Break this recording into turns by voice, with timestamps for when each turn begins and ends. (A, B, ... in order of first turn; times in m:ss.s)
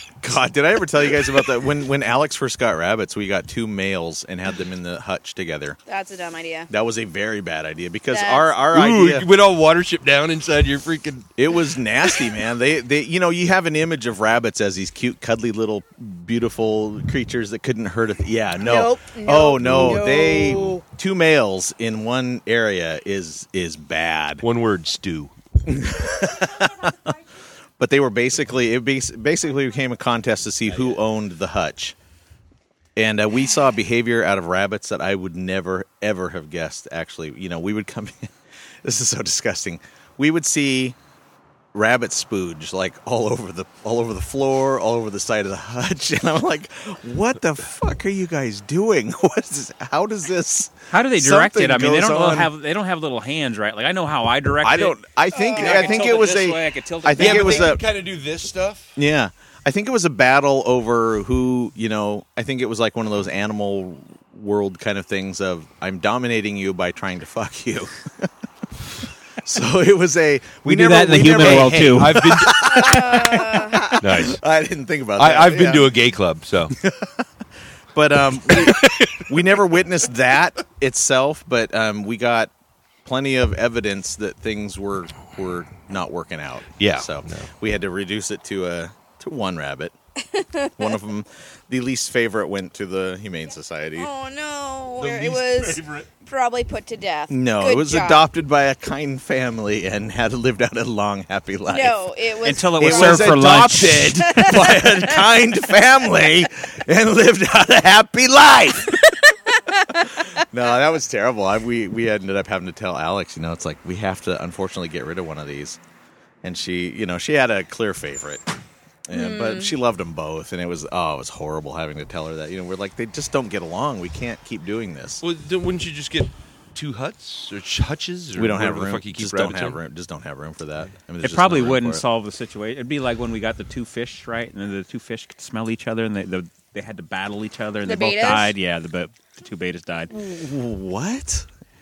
0:00.2-0:05.8 A
0:05.9-0:06.7 B
0:06.7-0:09.3 A
0:08.1-0:08.4 B
0:08.7-0:11.3 C
0:11.4-0:24.4 A
0:18.6-0:20.8 B
0:19.6-0:20.0 C
0:24.4-0:25.3 C
0:25.6-0:26.9 A
0:27.8-0:32.0 A
0:33.0-0:41.0 A
0:41.7-0:52.5 A
0:50.9-0:57.8 D
0:54.6-0:57.8 A
0:55.3-0:56.2 B
0:57.2-0:58.9 C
0:59.0-1:08.3 A
1:09.4-1:16.0 A
1:10.6-1:12.3 D
1:11.3-1:12.8 C
1:12.6-1:14.0 B
1:14.0-1:14.4 C
1:15.2-1:16.8 C
1:16.8-1:17.3 A
1:17.9-1:22.5 A
1:23.0-1:29.9 A
1:26.8-1:27.5 C
1:30.2-1:30.9 B
1:30.8-1:34.1 A
1:34.0-1:38.2 B
1:35.0-1:36.1 C
1:37.3-1:42.0 A
1:41.7-1:43.4 B
1:42.4-1:44.6 D
1:42.8-1:49.2 A
1:44.1-1:45.2 B
1:49.7-1:50.1 B
1:50.3-1:55.8 A
1:56.4-1:58.5 A
1:59.1-2:05.2 A
1:59.1-1:59.7 B
2:05.2-2:09.8 C
2:08.4-2:12.0 A
2:11.2-2:20.1 D
2:17.8-2:18.5 B
2:20.1-2:21.4 A